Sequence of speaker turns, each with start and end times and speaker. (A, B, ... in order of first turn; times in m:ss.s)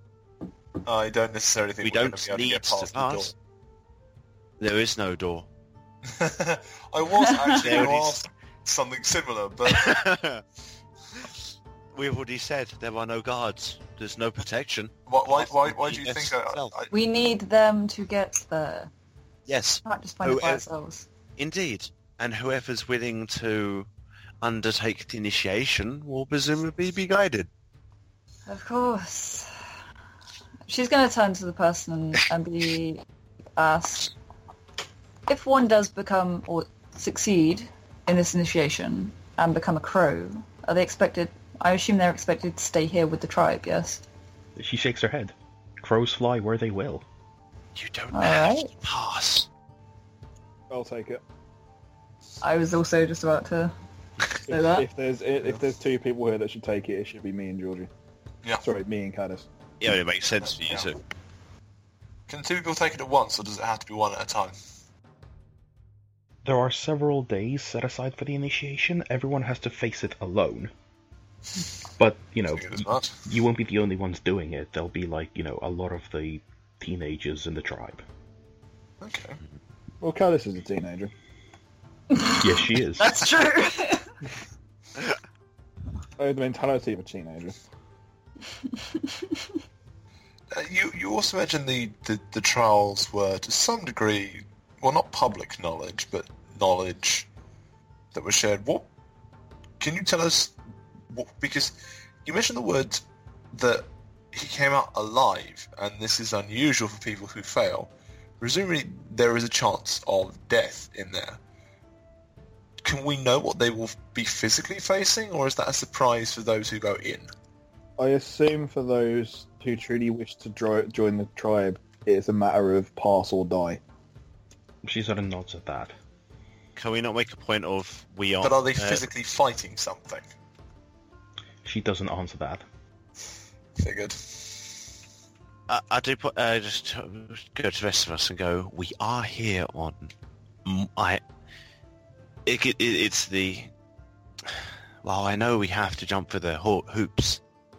0:00.8-0:03.3 A
0:01.8-0:03.3 B
0:04.6-0:05.5 B
0:06.0-0:10.1 A
0:07.6-0:08.2 B
0:09.7-0:10.4 B
0:11.9-0:16.8 B
0:15.1-0:16.9 A
0:16.9-0:18.9 C
0:19.5-0:20.6 B
0:19.8-0:21.0 C
0:21.4-0:23.9 B
0:24.4-0:27.5 B
0:28.5-0:29.5 C
0:30.7-0:33.0 C
0:33.6-0:34.1 C
0:35.3-0:44.0 C
0:44.6-0:47.0 D
0:47.8-0:49.5 B
0:48.1-0:48.7 C
0:50.7-0:51.2 E
0:52.4-0:53.7 C
0:54.5-0:54.8 C
0:54.5-0:57.9 E
0:58.6-0:59.4 E
0:59.8-1:01.0 B
1:00.4-1:00.9 A
1:02.3-1:04.5 A
1:06.4-1:10.7 D
1:12.0-1:18.0 D
1:12.5-1:13.2 A
1:19.0-1:19.4 A
1:20.0-1:21.1 E
1:22.1-1:22.4 C
1:22.4-1:23.2 D
1:23.0-1:24.1 C
1:26.2-1:27.6 E
1:30.5-1:37.3 A
1:38.1-1:38.9 A
1:39.8-1:40.5 A
1:41.1-1:51.4 A
1:52.8-1:57.3 A
1:58.0-2:03.8 E
2:04.8-2:05.9 D
2:06.8-2:09.0 B
2:08.4-2:10.3 A
2:11.6-2:12.6 D
2:13.8-2:14.8 A
2:15.7-2:20.1 B
2:20.6-2:21.2 B
2:22.4-2:23.7 B
2:24.5-2:27.4 B